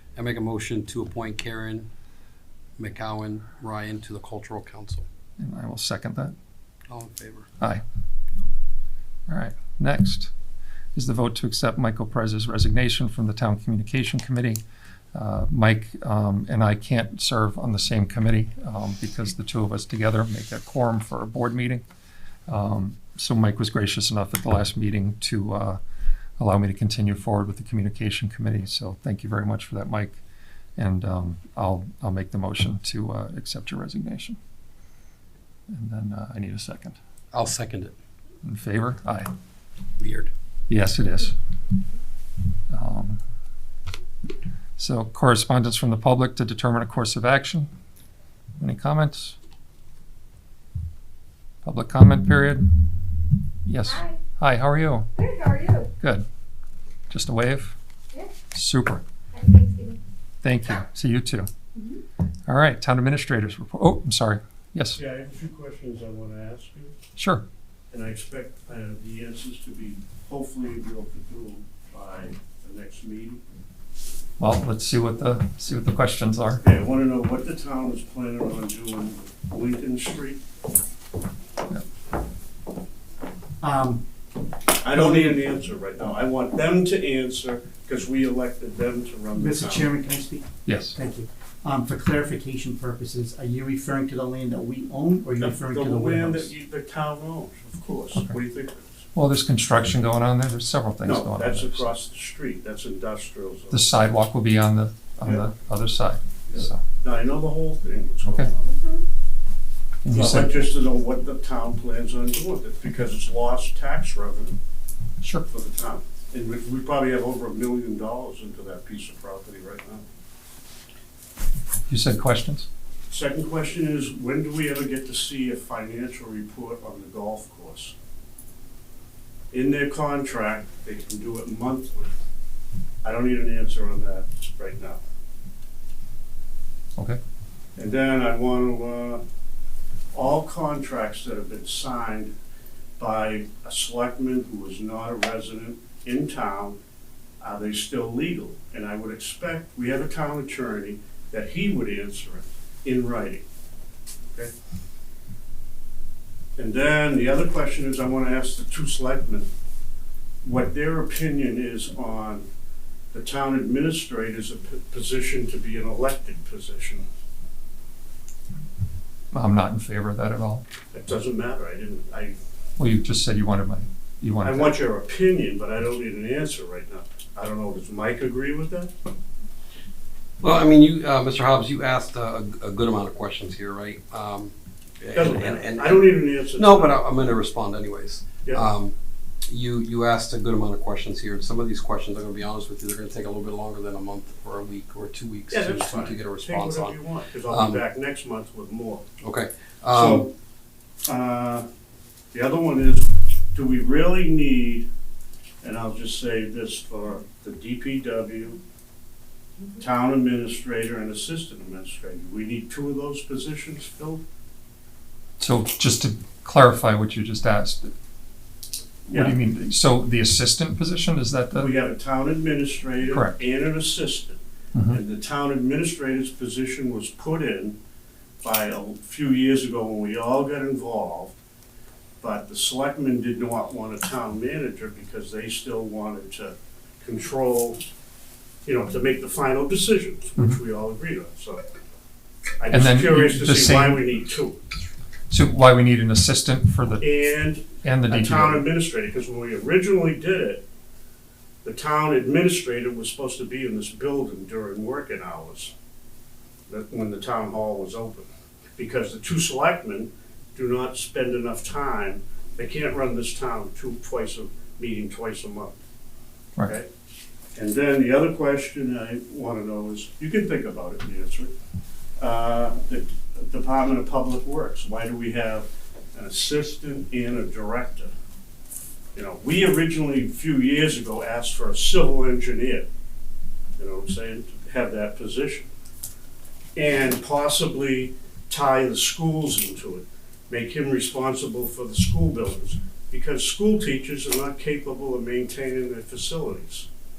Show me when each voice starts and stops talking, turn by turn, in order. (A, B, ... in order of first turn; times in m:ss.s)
0:00.2-0:01.9 A
0:02.8-0:05.1 A
0:05.4-0:06.4 B
0:06.9-0:07.5 A
0:09.3-0:10.3 B
0:11.0-0:14.6 B
0:15.2-0:21.8 B
0:22.5-0:25.8 B
0:26.4-0:30.2 B
0:30.8-0:34.4 B
0:35.7-0:37.0 B
0:37.3-0:38.0 A
0:38.4-0:39.3 B
0:40.0-0:40.3 A
0:40.7-0:41.4 B
0:42.7-0:43.2 B
0:44.8-0:47.7 B
0:48.6-0:49.4 B
0:51.6-0:52.7 B
0:53.6-0:55.1 B
0:53.9-0:54.2 C
0:55.2-0:55.9 C
0:57.1-0:57.8 B
0:58.5-0:59.0 B
0:59.3-1:00.0 C
1:00.4-1:01.5 B
1:02.5-1:05.0 B
1:05.0-1:07.0 D
1:07.2-1:07.4 B
1:07.9-1:13.4 D
1:14.4-1:16.6 B
1:16.6-1:20.4 D
1:23.6-1:24.0 E
1:24.8-1:29.9 D
1:24.9-1:25.5 E
1:29.3-1:36.5 E
1:30.7-1:31.0 B
1:35.4-1:39.0 D
1:39.1-1:41.9 B
1:41.0-1:43.9 D
1:43.7-1:46.8 B
1:46.5-1:48.7 D
1:48.2-1:48.5 B
1:48.7-1:49.0 C
1:50.0-1:50.7 B
1:50.1-1:54.6 D
1:55.2-1:55.5 B
1:55.5-2:00.0 D
2:01.9-2:02.7 B
2:03.1-2:07.9 D
2:09.5-2:12.1 D
2:13.0-2:15.0 D
2:17.8-2:19.2 D
2:20.1-2:22.3 D
2:23.0-2:26.8 D
2:27.4-2:33.4 D
2:36.6-2:39.5 D
2:40.4-2:42.5 D
2:43.1-2:47.0 D
2:49.3-2:50.6 B
2:50.9-2:52.4 D
2:52.8-2:54.8 B
2:54.4-2:58.9 D
3:00.4-3:08.9 A
3:05.1-3:07.0 D
3:09.5-3:17.8 A
3:15.5-3:19.0 D
3:19.2-3:20.3 A
3:19.9-3:20.3 D
3:21.1-3:21.7 D
3:22.3-3:24.9 D
3:25.6-3:28.6 D
3:29.8-3:34.2 D
3:35.4-3:37.9 B
3:39.1-3:41.8 B
3:41.6-3:47.8 D
3:43.1-3:43.4 B
3:44.7-3:45.0 B
3:48.4-3:51.4 D
3:52.2-3:57.8 D
3:58.7-4:01.6 D
4:02.6-4:04.6 D
4:02.7-4:04.0 B
4:05.3-4:07.1 B
4:07.0-4:10.6 D
4:07.8-4:08.6 B
4:11.6-4:15.7 D
4:16.7-4:25.8 D
4:27.6-4:31.5 D
4:32.2-4:38.1 D
4:39.2-4:42.9 D
4:43.8-4:45.7 D
4:46.8-4:56.9 D